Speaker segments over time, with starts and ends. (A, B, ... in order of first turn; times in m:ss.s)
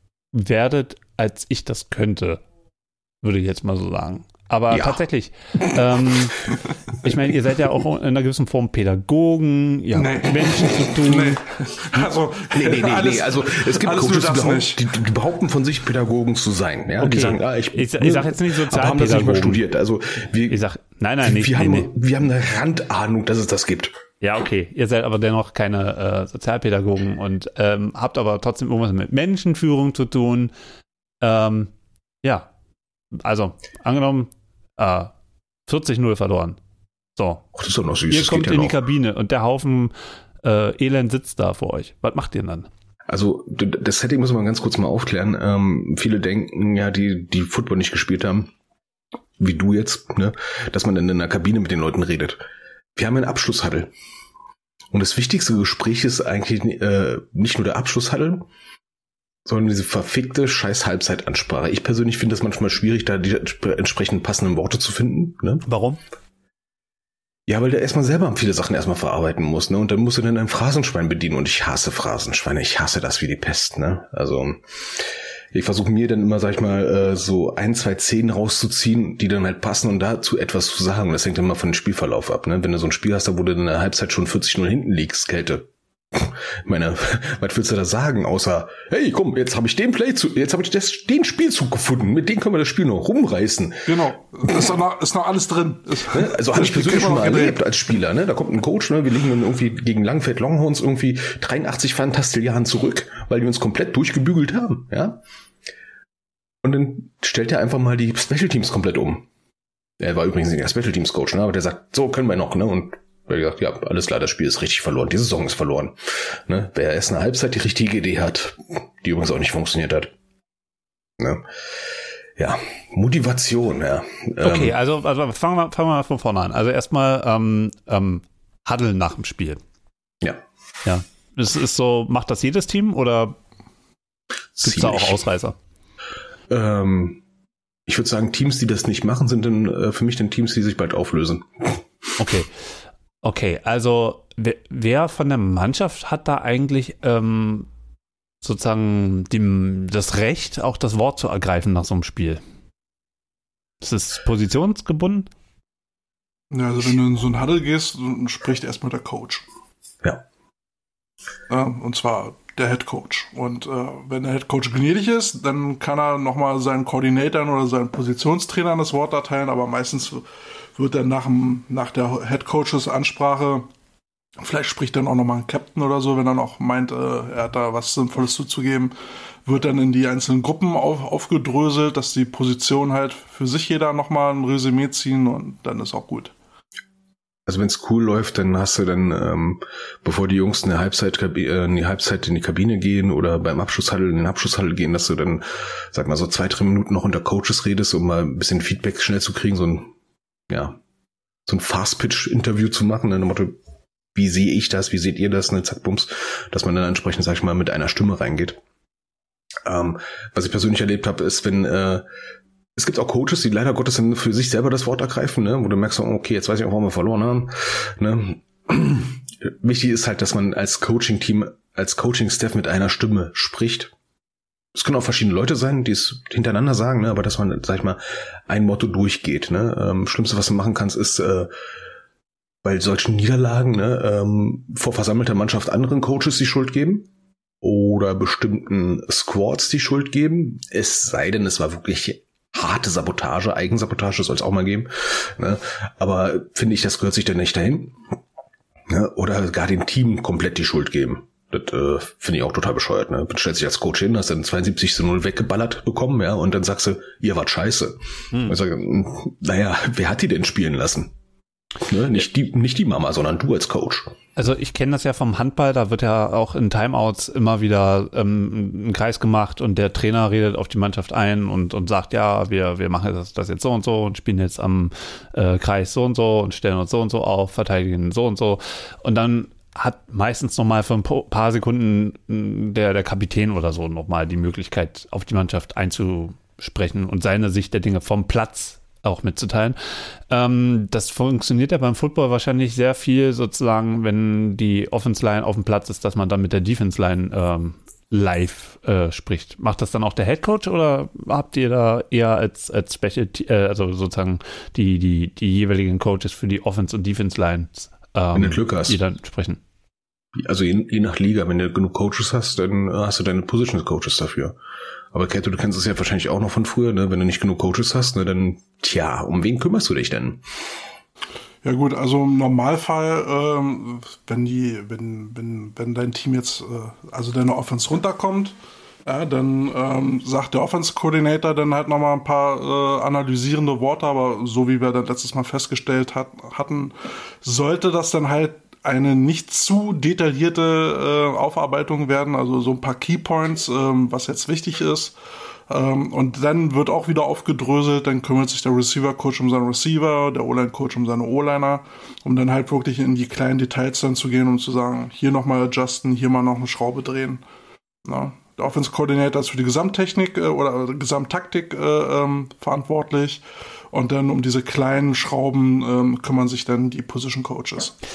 0:00.3-0:02.4 A
0:03.2-0:06.4 A
0:04.7-0:05.0 B
0:07.0-0:11.4 A
0:09.9-0:14.8 C
0:12.5-0:20.6 B
0:17.0-0:19.6 A
0:20.5-0:21.9 A
0:21.2-0:24.0 B
0:24.2-0:30.5 A
0:31.2-0:31.7 A
0:32.2-0:32.5 A
0:33.2-0:35.1 A
0:35.7-0:36.6 A
0:37.2-0:37.4 A
0:37.6-0:38.8 B
0:38.1-0:39.9 A
0:40.4-0:42.7 A
0:43.1-0:48.5 B
0:49.4-0:52.4 B
0:53.0-0:53.9 B
0:54.9-0:58.4 B
0:59.4-1:05.7 B
1:05.7-1:06.0 A
1:07.5-1:33.9 B
1:33.9-1:37.6 C
1:36.1-1:45.2 B
1:46.6-1:49.3 B
1:50.0-2:00.1 B
2:01.2-2:01.4 B
2:02.4-2:04.8 B
2:04.4-2:09.6 A
2:10.8-2:13.4 A
2:14.6-2:15.2 B
2:14.6-2:15.6 A
2:16.5-2:17.2 B
2:17.9-2:22.2 B
2:22.2-2:22.5 A
2:23.2-2:27.7 A
2:28.4-2:32.4 A
2:33.8-2:35.3 A
2:36.5-2:39.4 C
2:41.5-2:53.7 C
2:54.4-2:58.9 C
2:59.5-3:06.3 C
3:07.5-3:19.9 B
3:20.5-3:20.8 B
3:21.5-3:23.6 B
3:24.2-3:28.6 B
3:29.6-3:32.0 B
3:32.8-3:43.9 B
3:44.7-3:51.5 B
3:52.6-3:57.1 B
3:57.6-4:08.0 B
4:08.9-4:21.1 B
4:18.3-4:18.6 A
4:21.8-4:24.2 B
4:24.4-4:49.8 A
4:50.3-5:09.6 A
5:08.4-5:09.0 B
5:10.4-5:14.6 B
5:15.1-5:20.4 B
5:21.6-5:45.2 C
5:45.7-5:57.4 C
5:58.1-6:08.0 C